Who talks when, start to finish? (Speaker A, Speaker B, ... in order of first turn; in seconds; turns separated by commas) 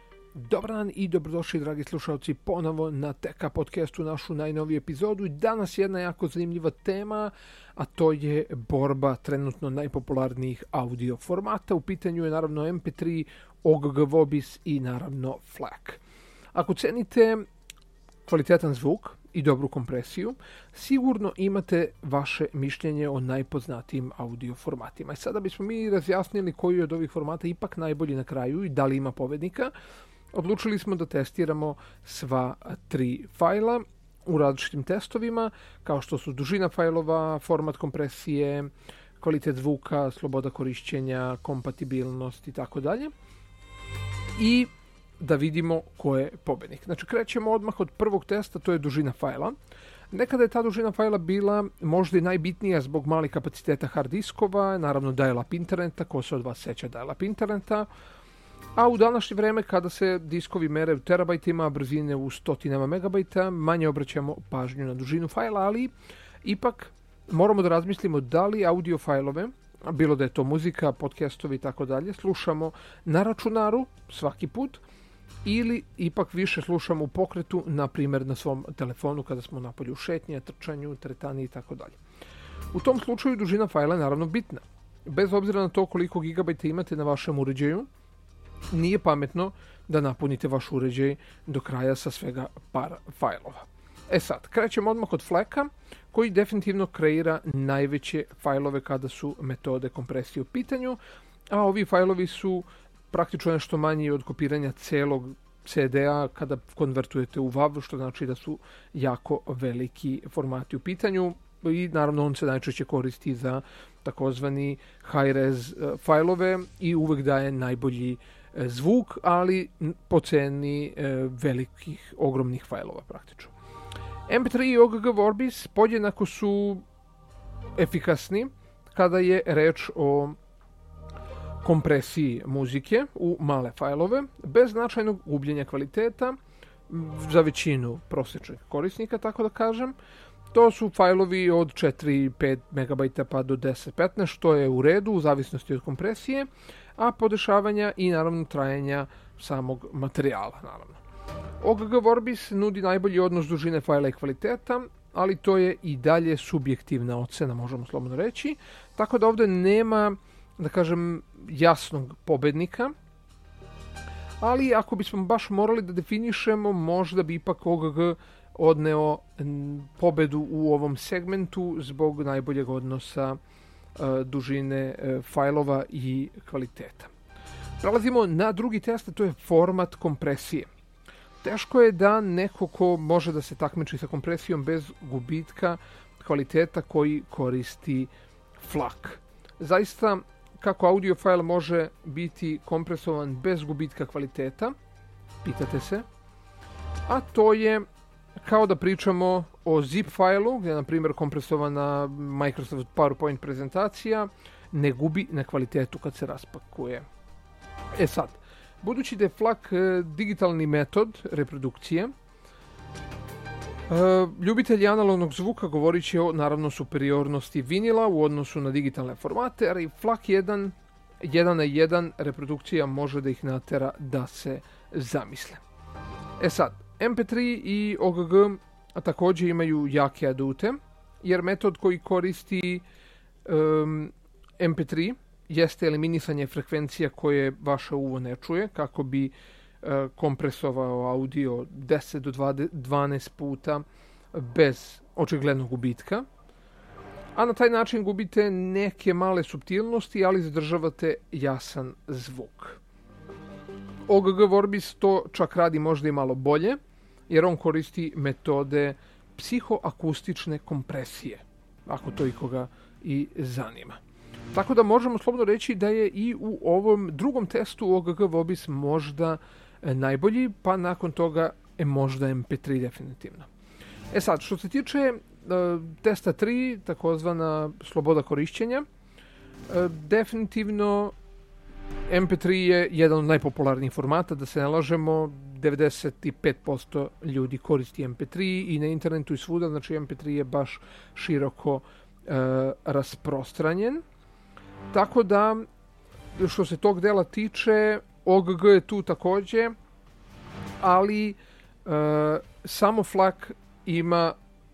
Speaker A: 0.3-16.0, Speaker A: 16.5-17.4, Speaker A: 18.2-29.7, Speaker A: 30.3-43.1, Speaker A: 44.4-49.5, Speaker A: 50.1-57.9, Speaker A: 58.8-65.9, Speaker A: 66.4-74.8, Speaker A: 75.4-82.0, Speaker A: 82.7-87.9, Speaker A: 88.7-101.0, Speaker A: 101.5-123.5, Speaker A: 124.3-126.8, Speaker A: 127.8-130.3, Speaker A: 131.6-136.3, Speaker A: 136.9-139.9, Speaker A: 140.5-151.0, Speaker A: 151.6-162.9, Speaker A: 164.4-173.4, Speaker A: 174.0-177.1, Speaker A: 177.8-180.7, Speaker A: 181.4-194.7, Speaker A: 195.4-196.0, Speaker A: 197.1-197.8, Speaker A: 198.4-207.0, Speaker A: 207.9-212.1, Speaker A: 213.9-225.6, Speaker A: 226.4-232.8, Speaker A: 233.4-246.2, Speaker A: 247.3-252.8, Speaker A: 254.1-256.8, Speaker A: 257.3-264.0, Speaker A: 264.5-273.5, Speaker A: 274.1-278.9, Speaker A: 279.7-281.1, Speaker A: 282.1-294.0, Speaker A: 294.9-295.6, Speaker A: 296.4-299.7, Speaker A: 300.8-304.4